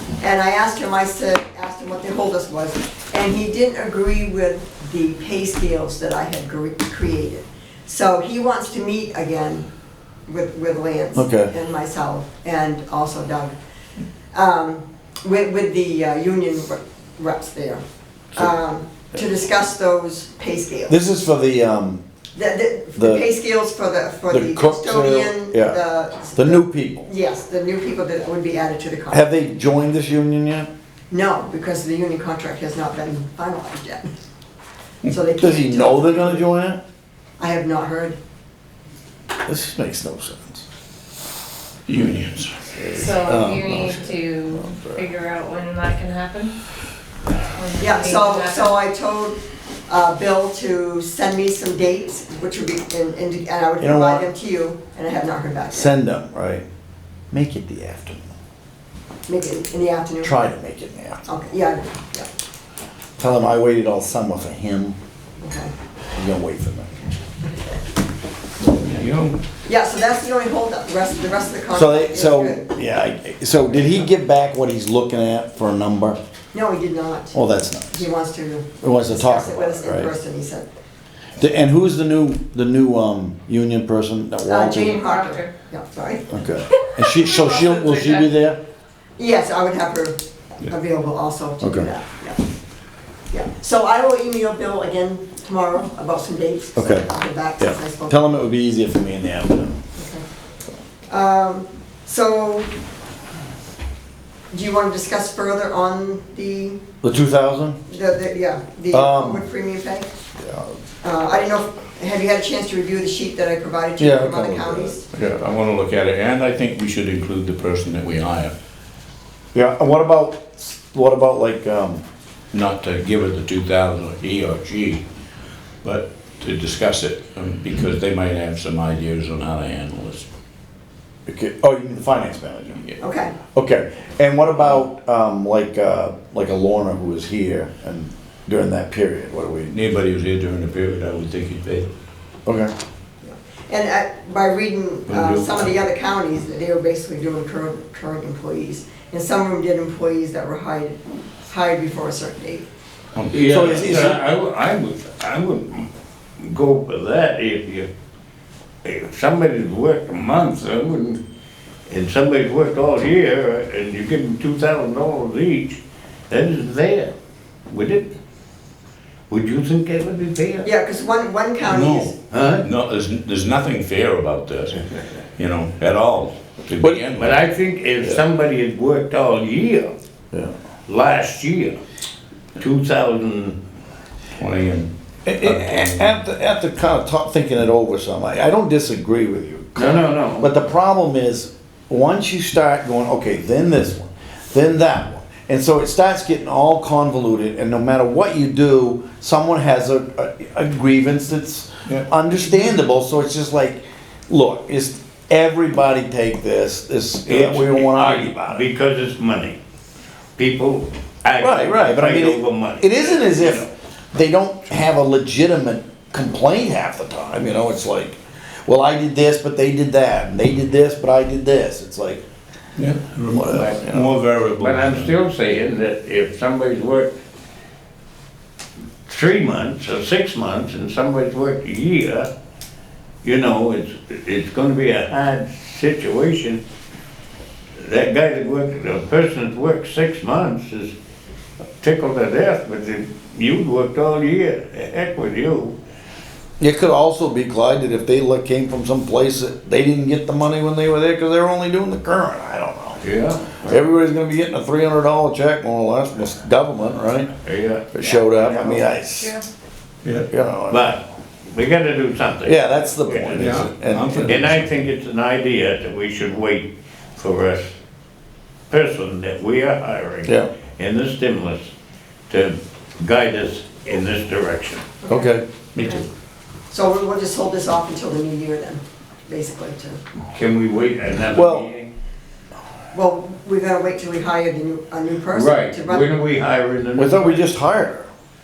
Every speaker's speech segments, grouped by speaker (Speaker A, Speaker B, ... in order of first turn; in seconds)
Speaker A: 0.2-9.7, 10.3-13.6, 14.3-17.8, 18.3-21.0, 22.4-29.3, 31.1-34.1, 35.1-36.5, 37.4-38.2, 47.8-56.0, 59.3-60.4, 61.3-62.3, 65.4-65.7, 67.0-67.6, 69.6-72.7, 76.5-77.4, 77.9-80.7, 84.5-86.3, 89.2-92.4, 93.3-98.3, 100.0-100.2, 101.1-102.7, 104.5-106.8, 107.9-110.1, 111.0-115.0, 133.0-133.3, 143.2-152.7, 170.6-172.2, 275.0-276.1, 276.7-280.0, 282.9-286.1
Speaker B: 11.2-11.5, 20.9-22.0, 23.0-23.2, 24.3-25.8, 26.3-27.1, 29.1-30.7, 35.4-36.8, 39.5-40.6, 42.8-45.1, 53.8-54.3, 55.7-56.7, 57.3-58.3, 60.2-61.2, 63.2-65.0, 66.2-66.9, 71.7-76.2, 77.3-78.1, 78.8-80.1, 81.4-85.0, 86.3-88.6, 91.6-91.9, 96.8-97.1, 97.6-99.8, 107.0-107.8, 108.9-109.5, 110.4-110.7, 114.0-115.0, 119.5-122.0, 131.3-132.9, 133.5-139.7, 142.5-142.7, 153.4-154.2, 185.3-208.7, 211.4-222.2, 223.3-223.8, 246.6-253.0, 253.6-257.3, 257.9-259.4, 260.3-260.9, 262.4-264.4, 270.2-270.5, 275.1-275.4, 281.3-281.7, 286.9-288.1
Speaker C: 41.9-42.8, 68.7-69.4, 115.1-118.5, 122.5-125.0, 125.8-130.3, 139.7-141.9, 145.1-145.7, 153.2-153.5, 171.7-174.8, 175.4-177.4, 184.4-184.9, 185.4-186.1, 222.8-225.1, 263.4-264.8, 275.8-276.0
Speaker D: 42.9-46.5, 47.5-48.8, 84.8-85.5, 87.0-88.3
Speaker E: 153.3-155.9, 156.4-157.9, 158.8-161.2, 161.9-165.8, 166.3-167.1, 167.7-168.1, 169.3-170.7, 172.3-172.6, 177.2-179.9, 180.9-181.8, 182.6-183.6, 189.8-190.5, 207.3-209.6, 210.4-213.7, 223.5-227.1, 229.1-232.3, 233.2-236.6, 237.8-240.9, 241.8-245.8, 253.0-253.8, 257.4-258.9, 260.7-263.4, 264.3-267.7, 268.7-271.7, 272.3-274.9, 280.3-281.9, 285.3-287.4